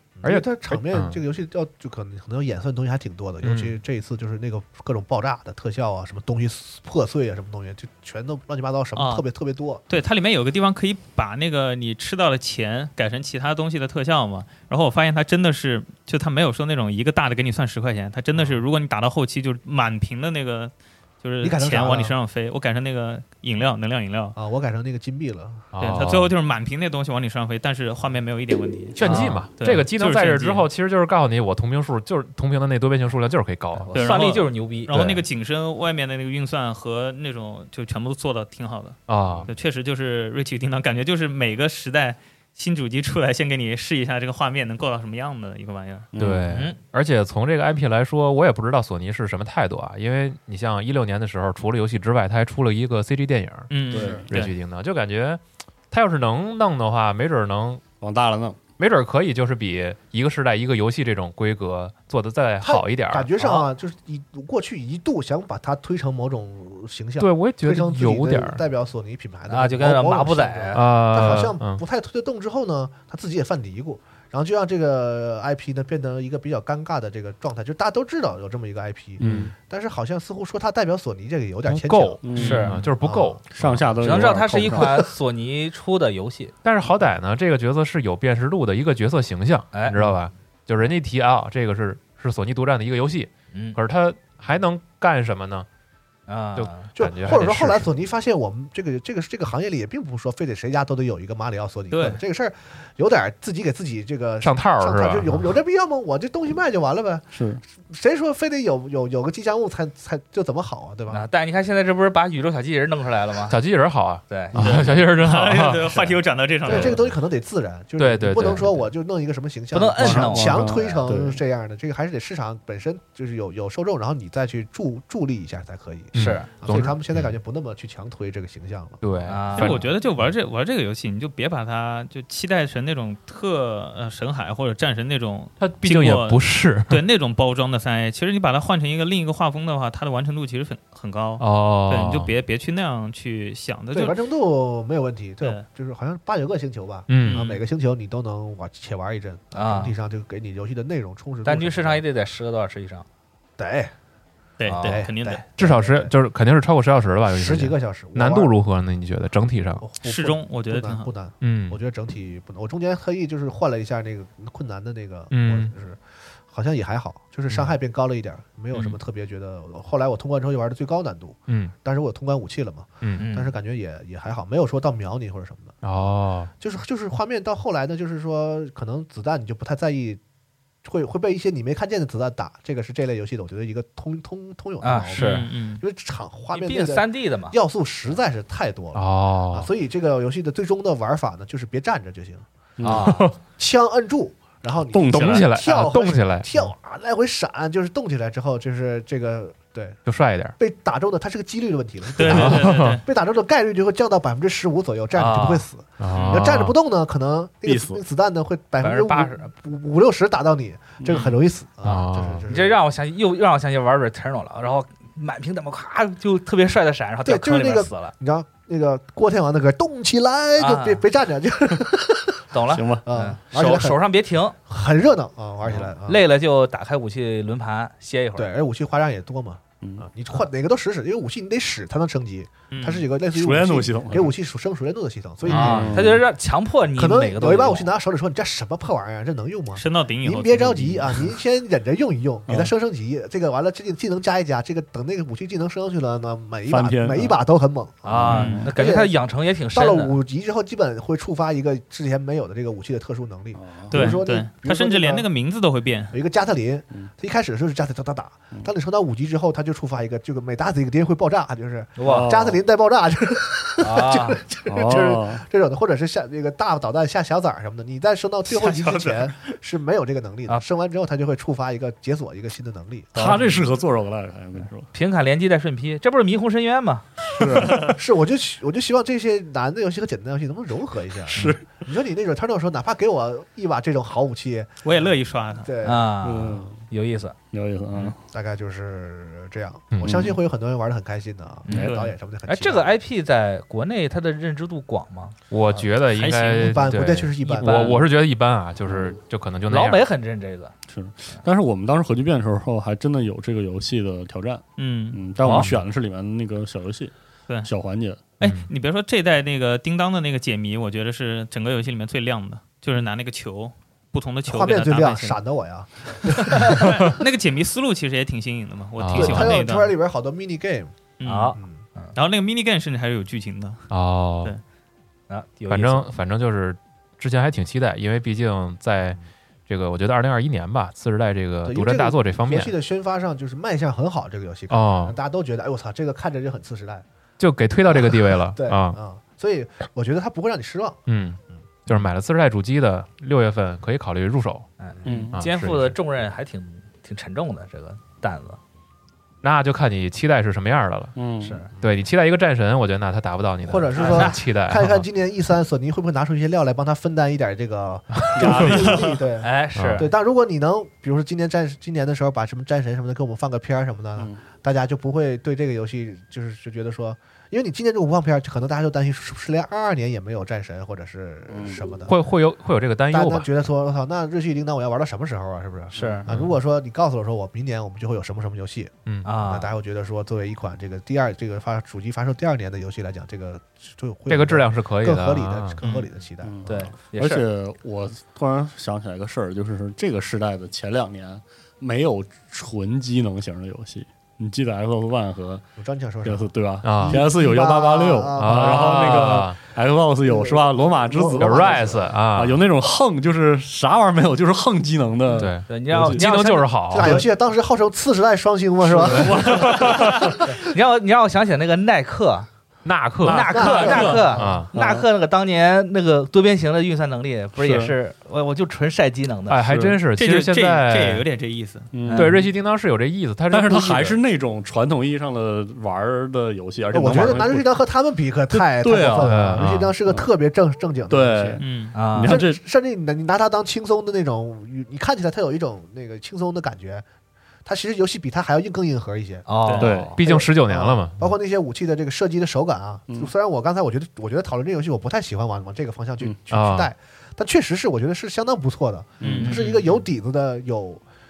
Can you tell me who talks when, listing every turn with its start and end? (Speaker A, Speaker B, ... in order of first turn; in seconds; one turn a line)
Speaker A: 0.2-9.8
Speaker B: 0.2-1.2
Speaker B: 3.4-3.8
Speaker C: 8.9-9.2
Speaker C: 9.9-24.4
Speaker A: 21.4-22.1
Speaker A: 24.3-25.6
Speaker B: 25.7-26.3
Speaker C: 25.8-30.7
Speaker B: 28.9-34.1
Speaker D: 29.0-29.4
Speaker D: 33.8-35.2
Speaker C: 33.9-46.1
Speaker B: 34.9-35.2
Speaker B: 39.1-39.5
Speaker E: 46.1-46.6
Speaker B: 46.2-57.8
Speaker D: 46.5-46.8
Speaker C: 53.7-54.5
Speaker E: 53.9-54.5
Speaker E: 58.0-58.6
Speaker B: 58.8-63.3
Speaker A: 62.6-82.2
Speaker D: 63.4-63.7
Speaker B: 67.2-68.6
Speaker D: 69.5-70.8
Speaker B: 70.7-71.8
Speaker E: 79.2-79.5
Speaker B: 79.2-79.5
Speaker B: 81.7-83.9
Speaker E: 82.2-82.7
Speaker D: 82.3-82.8
Speaker A: 83.0-83.4
Speaker E: 83.5-85.1
Speaker D: 84.0-86.5
Speaker B: 86.6-95.7
Speaker D: 89.7-90.1
Speaker D: 93.5-93.8
Speaker D: 96.3-96.8
Speaker B: 96.5-97.9
Speaker A: 97.0-111.3
Speaker C: 101.9-102.2
Speaker B: 104.4-105.5
Speaker E: 107.3-107.6
Speaker D: 111.1-113.6
Speaker B: 113.5-116.1
Speaker D: 114.3-114.8
Speaker E: 114.5-114.9
Speaker C: 114.6-117.0
Speaker A: 116.6-129.0
Speaker B: 118.0-118.8
Speaker D: 119.7-121.0
Speaker E: 120.0-121.4
Speaker B: 126.1-127.3
Speaker D: 126.2-126.5
Speaker B: 129.0-129.9
Speaker D: 129.3-129.8
Speaker C: 129.5-144.2
Speaker B: 135.6-137.0
Speaker B: 141.4-142.3
Speaker A: 143.9-152.0
Speaker B: 147.1-147.4
Speaker C: 147.2-147.6
Speaker D: 149.5-149.9
Speaker D: 151.4-153.1
Speaker A: 153.6-153.9
Speaker C: 154.6-155.4
Speaker D: 154.6-155.0
Speaker A: 154.8-156.1
Speaker B: 155.6-159.8
Speaker A: 157.3-158.5
Speaker A: 159.8-175.8
Speaker C: 160.0-161.1
Speaker B: 161.4-161.8
Speaker B: 165.3-165.7
Speaker B: 171.5-171.7
Speaker D: 173.2-173.5
Speaker B: 175.8-176.5
Speaker A: 176.6-180.2
Speaker A: 180.8-192.4
Speaker D: 184.8-185.5
Speaker C: 185.2-185.8
Speaker D: 186.5-187.6
Speaker B: 188.9-189.7
Speaker E: 192.8-193.2
Speaker B: 192.8-193.3
Speaker D: 192.9-193.2
Speaker A: 193.1-200.0
Speaker E: 194.9-195.5
Speaker B: 195.1-196.7
Speaker B: 200.1-200.6
Speaker A: 200.6-212.8
Speaker C: 202.2-203.0
Speaker B: 202.2-203.0
Speaker D: 205.1-205.6
Speaker B: 206.0-206.8
Speaker C: 206.1-206.5
Speaker E: 207.6-208.0
Speaker D: 208.8-209.5
Speaker C: 211.1-211.4
Speaker B: 211.8-212.4
Speaker D: 212.5-218.1
Speaker A: 217.2-222.4
Speaker D: 220.6-221.0
Speaker D: 222.5-224.6
Speaker E: 222.7-223.0
Speaker A: 223.0-224.0
Speaker A: 224.7-226.2
Speaker D: 225.7-228.5
Speaker A: 228.3-235.9
Speaker E: 229.8-230.1
Speaker C: 232.7-233.1
Speaker E: 233.3-234.3
Speaker E: 235.5-236.2
Speaker D: 235.5-237.9
Speaker A: 236.9-249.2
Speaker C: 239.7-241.3
Speaker E: 242.5-242.7
Speaker E: 246.7-247.4
Speaker D: 248.0-250.2
Speaker E: 248.1-248.7
Speaker C: 248.3-248.6
Speaker A: 249.7-255.3
Speaker E: 253.5-254.2
Speaker C: 253.9-256.1
Speaker A: 256.1-273.3
Speaker D: 262.0-262.3
Speaker E: 262.0-262.6
Speaker D: 263.8-264.4
Speaker E: 264.7-265.4
Speaker C: 268.5-269.5
Speaker D: 273.1-273.6
Speaker E: 273.1-274.9
Speaker D: 274.9-277.1
Speaker A: 277.3-286.1
Speaker E: 277.4-277.7
Speaker C: 277.6-278.0
Speaker E: 281.3-281.7
Speaker C: 284.8-285.7
Speaker D: 285.8-287.4
Speaker E: 286.2-286.8
Speaker E: 287.5-288.2
Speaker A: 288.3-292.9
Speaker B: 289.9-290.3
Speaker E: 290.0-290.3
Speaker D: 291.6-295.9
Speaker E: 291.7-291.9
Speaker C: 291.7-292.1
Speaker B: 295.5-300.1
Speaker C: 296.1-296.8
Speaker A: 296.6-297.8
Speaker D: 297.6-298.0
Speaker E: 297.7-298.0
Speaker E: 298.9-299.2
Speaker D: 299.7-300.7
Speaker E: 300.9-308.2
Speaker C: 304.8-305.2
Speaker D: 305.4-305.7
Speaker B: 305.5-305.8
Speaker C: 308.4-315.4
Speaker B: 308.4-308.7
Speaker A: 314.4-317.1
Speaker C: 316.6-319.9
Speaker B: 319.0-319.6
Speaker A: 319.1-320.9
Speaker C: 321.2-321.6
Speaker D: 321.2-322.1
Speaker A: 321.5-321.8
Speaker C: 322.1-323.8
Speaker B: 323.9-324.5
Speaker D: 325.3-326.1
Speaker B: 325.7-332.7
Speaker A: 331.6-337.0
Speaker B: 334.7-335.1
Speaker B: 337.4-339.0
Speaker A: 337.9-341.0
Speaker B: 341.1-344.7
Speaker D: 344.8-348.6
Speaker E: 345.1-345.4
Speaker B: 345.3-345.9
Speaker B: 349.4-351.1
Speaker E: 351.1-351.6
Speaker D: 351.4-351.7
Speaker B: 351.8-355.1
Speaker A: 353.6-372.1
Speaker D: 353.9-354.4
Speaker B: 358.1-358.7
Speaker E: 358.3-359.1
Speaker C: 358.7-359.2
Speaker D: 359.4-360.1
Speaker B: 359.7-360.1
Speaker E: 364.2-364.4
Speaker E: 371.5-371.8
Speaker B: 372.1-373.6
Speaker A: 373.1-386.9
Speaker D: 375.9-376.3
Speaker B: 376.3-376.5
Speaker D: 379.2-379.7
Speaker B: 384.3-385.8
Speaker C: 385.8-386.1
Speaker E: 386.4-395.6
Speaker D: 386.7-387.4
Speaker A: 395.8-399.4
Speaker E: 396.2-406.2
Speaker B: 396.8-397.2
Speaker B: 398.4-399.6
Speaker A: 400.2-402.0
Speaker B: 401.4-402.6
Speaker B: 405.4-407.2
Speaker D: 405.7-407.3
Speaker A: 406.9-409.9
Speaker E: 408.8-410.5
Speaker B: 409.1-410.2
Speaker D: 410.6-412.5
Speaker B: 412.8-413.8
Speaker D: 413.2-419.6
Speaker A: 413.3-414.6
Speaker C: 413.4-414.4
Speaker B: 414.3-414.7
Speaker E: 414.7-415.1
Speaker E: 417.6-417.9
Speaker B: 419.5-421.2
Speaker E: 419.6-420.0
Speaker C: 420.1-421.9
Speaker E: 421.9-422.5
Speaker D: 422.1-422.5
Speaker B: 422.1-424.2
Speaker E: 423.5-427.8
Speaker A: 426.9-431.6
Speaker E: 428.5-430.3
Speaker B: 429.2-429.9
Speaker E: 431.1-432.6
Speaker C: 431.6-431.9
Speaker D: 431.9-432.4
Speaker A: 432.2-437.0
Speaker A: 437.6-439.4
Speaker D: 439.5-440.1
Speaker C: 439.6-440.1
Speaker E: 439.8-440.2
Speaker B: 440.1-441.3
Speaker A: 440.2-451.0
Speaker B: 446.5-446.9
Speaker E: 449.2-449.5
Speaker C: 449.2-449.6
Speaker D: 449.4-449.8